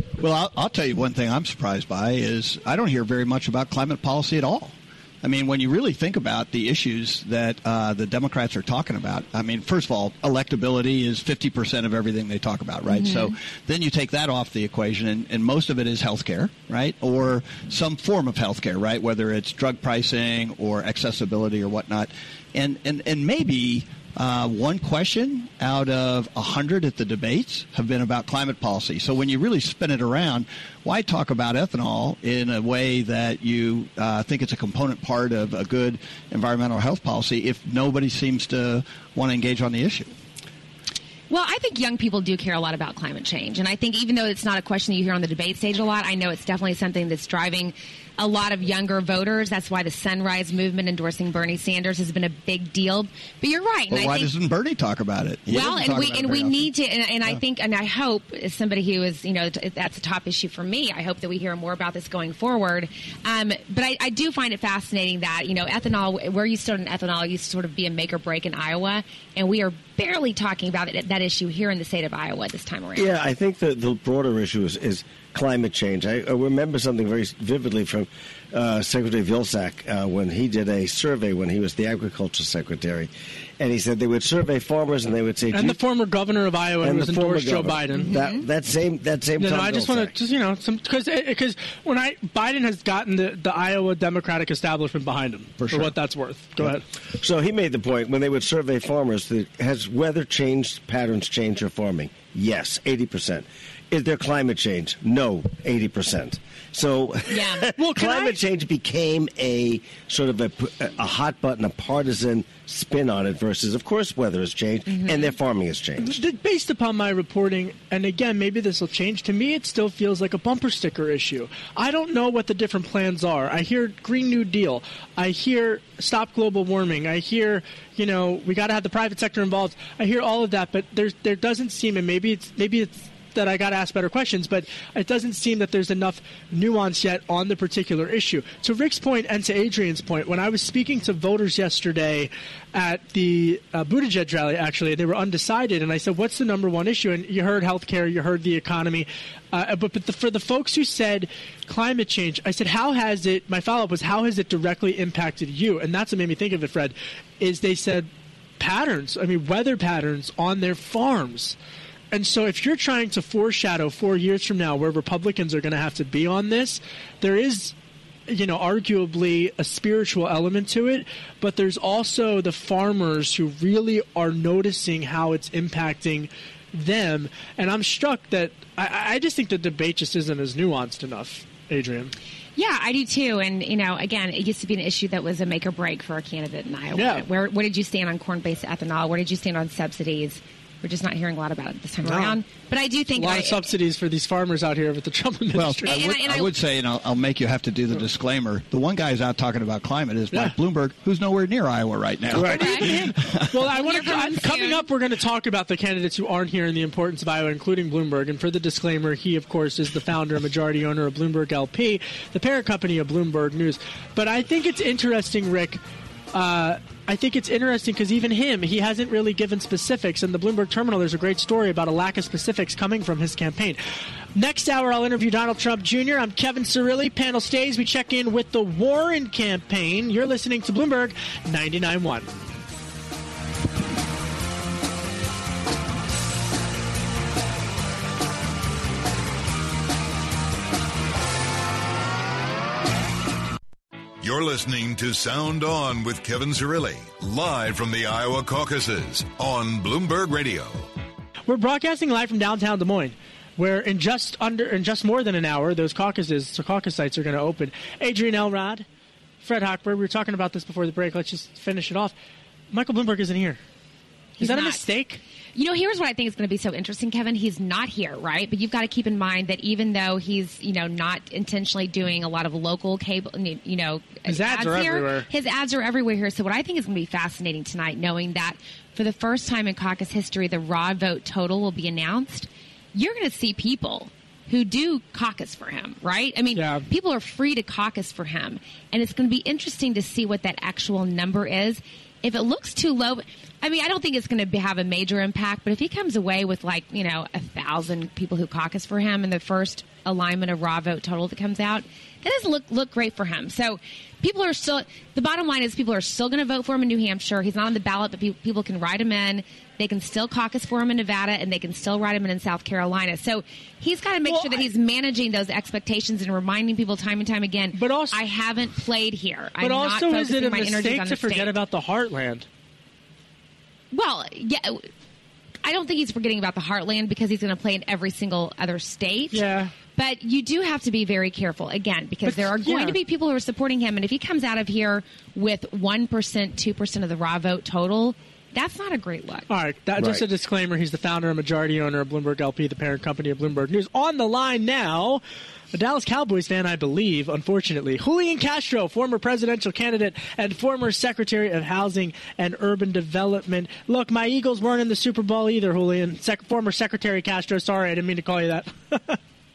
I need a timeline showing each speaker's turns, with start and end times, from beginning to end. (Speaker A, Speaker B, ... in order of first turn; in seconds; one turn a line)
Speaker A: 0.2-40.1
Speaker B: 12.9-13.3
Speaker B: 41.3-54.3
Speaker A: 53.9-56.7
Speaker B: 55.5-73.1
Speaker C: 73.0-85.8
Speaker D: 85.5-88.1
Speaker C: 86.8-90.1
Speaker B: 88.0-88.4
Speaker D: 89.4-96.8
Speaker A: 95.6-95.9
Speaker C: 96.7-116.2
Speaker B: 107.3-107.7
Speaker D: 107.8-108.4
Speaker B: 114.9-115.3
Speaker D: 116.0-158.1
Speaker D: 158.6-161.6
Speaker D: 162.1-167.8
Speaker D: 168.3-182.1
Speaker B: 182.6-193.6
Speaker D: 186.9-187.2
Speaker D: 192.0-192.4
Speaker D: 193.2-196.0
Speaker A: 195.6-203.6
Speaker B: 195.9-196.5
Speaker D: 202.3-215.8
Speaker B: 202.5-202.9
Speaker B: 203.8-204.9
Speaker D: 216.3-223.8
Speaker D: 224.3-232.3
Speaker E: 244.2-250.9
Speaker D: 251.5-258.9
Speaker D: 259.4-262.1
Speaker D: 262.7-263.6
Speaker B: 264.4-264.8
Speaker D: 264.4-265.2
Speaker B: 265.6-321.5
Speaker D: 274.3-275.3
Speaker D: 286.6-286.9
Speaker D: 314.3-314.7
Speaker D: 317.8-318.2
Speaker D: 319.6-322.5
Speaker B: 323.9-324.9
Speaker B: 325.6-329.4
Speaker D: 329.3-329.7
Speaker B: 330.0-339.5
Speaker D: 332.2-333.0
Speaker D: 339.5-345.2
Speaker D: 345.7-359.2